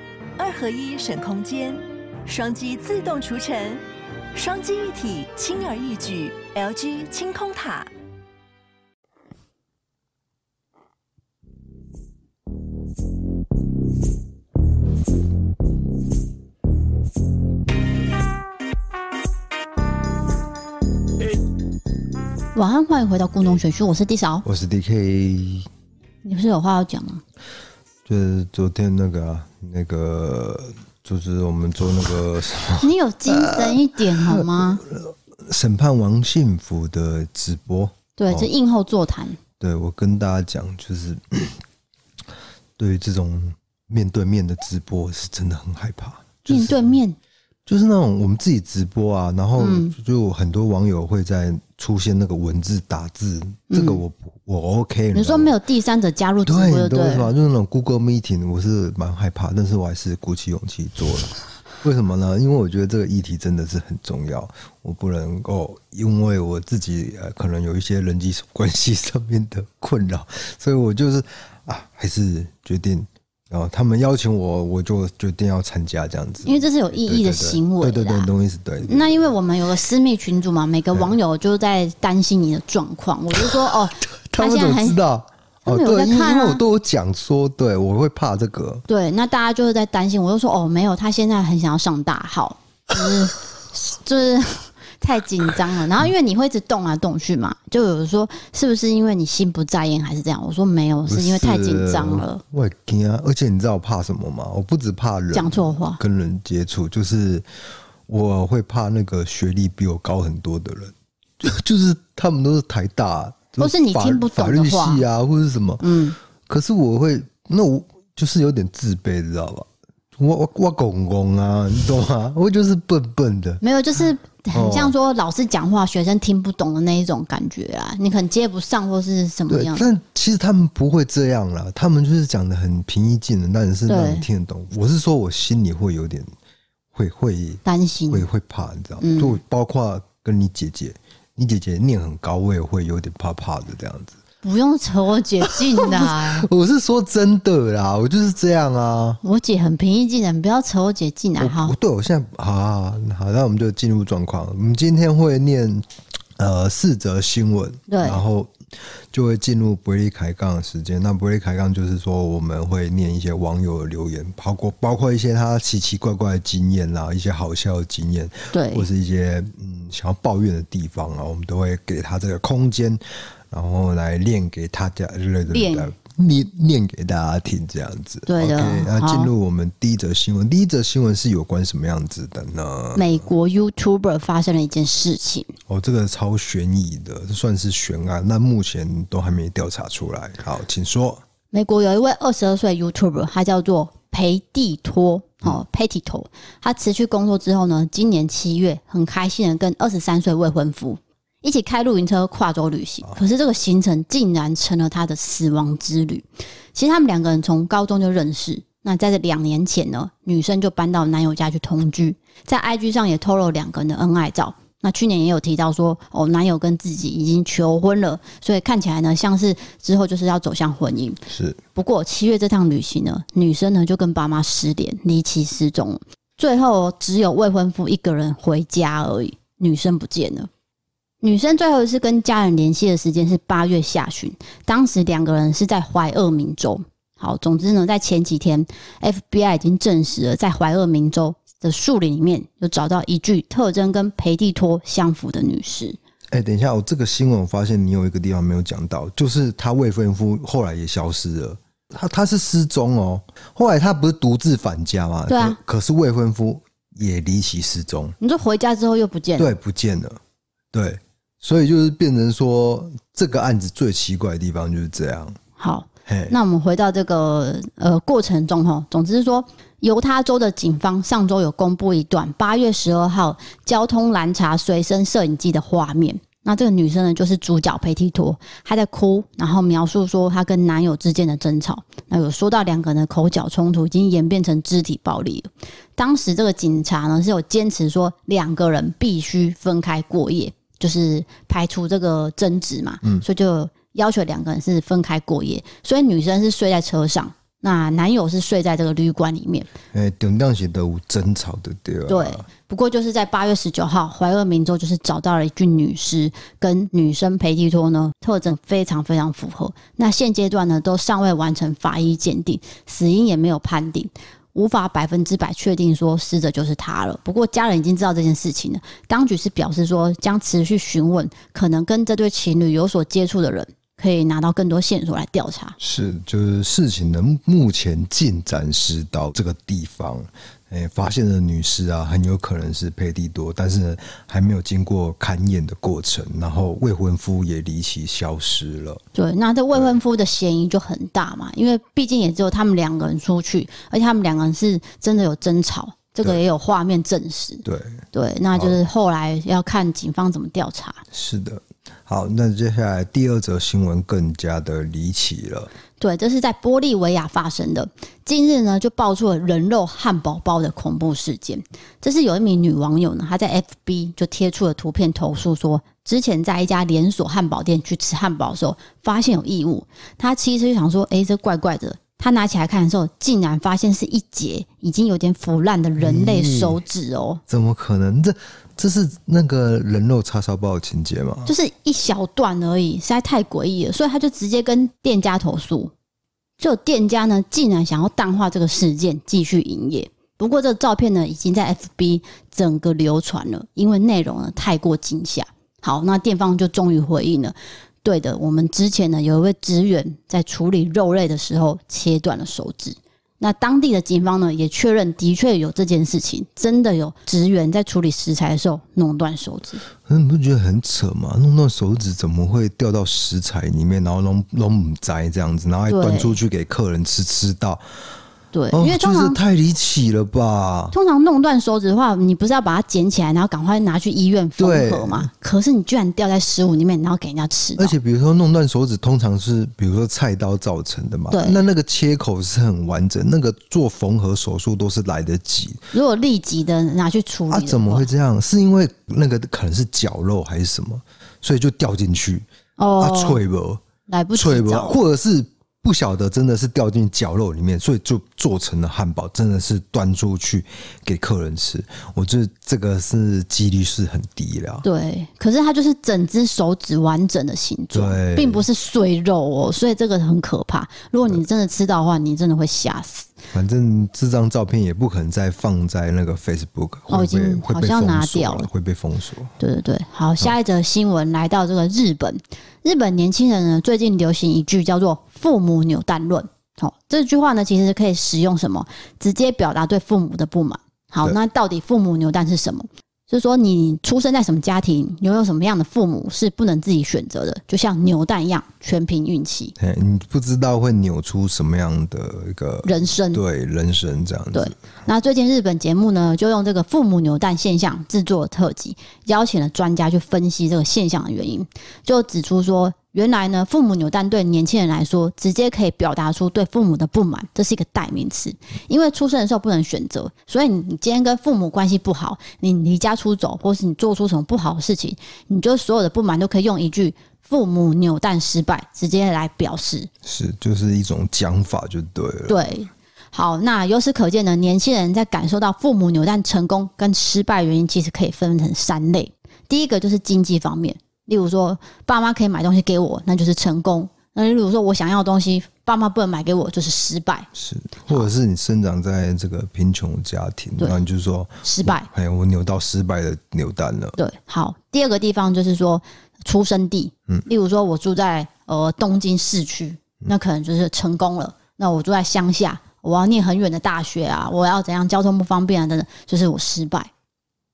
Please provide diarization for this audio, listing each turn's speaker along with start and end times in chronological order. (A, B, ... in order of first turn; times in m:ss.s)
0:00.4-0:03.8 A
0:04.3-0:07.9 A
0:22.5-0:24.4 B
0:24.4-0:25.7 C
0:26.2-0:27.2 B
0:28.0-0:38.5 C
0:32.8-0:34.8 B
0:38.2-0:39.4 B
0:39.6-0:41.6 C
0:42.8-0:46.9 C
0:46.5-0:47.2 B
0:47.6-0:55.5 C
0:49.6-0:49.9 B
0:53.7-0:54.0 B
0:55.1-0:57.3 B
0:56.4-1:19.2 C
1:16.4-1:18.3 B
1:18.8-1:25.0 B
1:23.4-1:28.8 C
1:25.6-1:26.6 B
1:28.9-1:42.4 B
1:41.1-1:47.4 C
1:45.3-1:46.0 B
1:48.1-1:55.9 C
1:53.6-1:55.0 B
1:55.8-1:56.2 B
1:56.4-2:03.6 C
2:03.6-2:09.8 B
2:04.5-2:04.9 C
2:09.5-2:16.3 C
2:13.9-2:14.3 B
2:16.9-2:24.1 C
2:17.6-2:18.2 B
2:19.0-2:19.4 B
2:24.4-2:26.5 B
2:25.4-2:29.2 C
2:29.2-2:31.7 B
2:31.4-2:38.5 C
2:37.9-2:38.2 B
2:39.1-3:03.2 C
2:48.5-2:48.9 B
2:55.5-2:55.9 B
2:58.3-2:59.3 B
3:03.0-3:05.5 B
3:05.7-3:11.2 C
3:11.5-3:41.2 B
3:41.3-3:41.6 C
3:41.7-3:50.5 B
3:51.2-4:06.0 B
4:06.3-4:18.2 C
4:15.3-4:15.6 B
4:18.2-4:19.6 B
4:19.4-4:20.2 C
4:20.7-4:25.4 C
4:25.6-4:59.7 B
4:26.1-4:26.3 C
4:59.9-5:02.4 C
5:02.1-5:25.8 B
5:25.8-5:39.0 C
5:39.1-5:51.0 B
5:47.6-5:48.0 C
5:48.5-5:48.8 C
5:51.1-5:55.7 C
5:56.0-6:17.4 B
6:16.0-6:16.8 C
6:17.5-6:21.5 C
6:21.4-6:25.9 B
6:26.6-6:49.8 B
6:50.0-6:57.8 C
6:55.9-6:56.4 B
6:58.5-6:59.4 B
6:58.7-7:00.9 C
7:00.9-7:08.0 B
7:04.6-7:05.3 C
7:07.8-7:15.8 C
7:11.3-7:11.6 B
7:15.9-7:18.1 B
7:17.5-7:22.4 C
7:22.8-7:23.4 B
7:23.0-7:23.8 C
7:24.1-7:25.0 B
7:24.3-7:34.8 C
7:34.8-7:43.3 B
7:37.9-7:38.6 C
7:43.5-7:49.5 C
7:47.1-7:48.7 B
7:49.6-8:09.7 B
8:09.8-8:14.8 C
8:12.8-8:13.4 B
8:14.5-8:40.1 B
8:40.2-8:42.6 C
8:42.5-8:57.5 B
8:57.5-9:04.2 C
9:01.6-9:02.1 B
9:04.2-9:17.1 B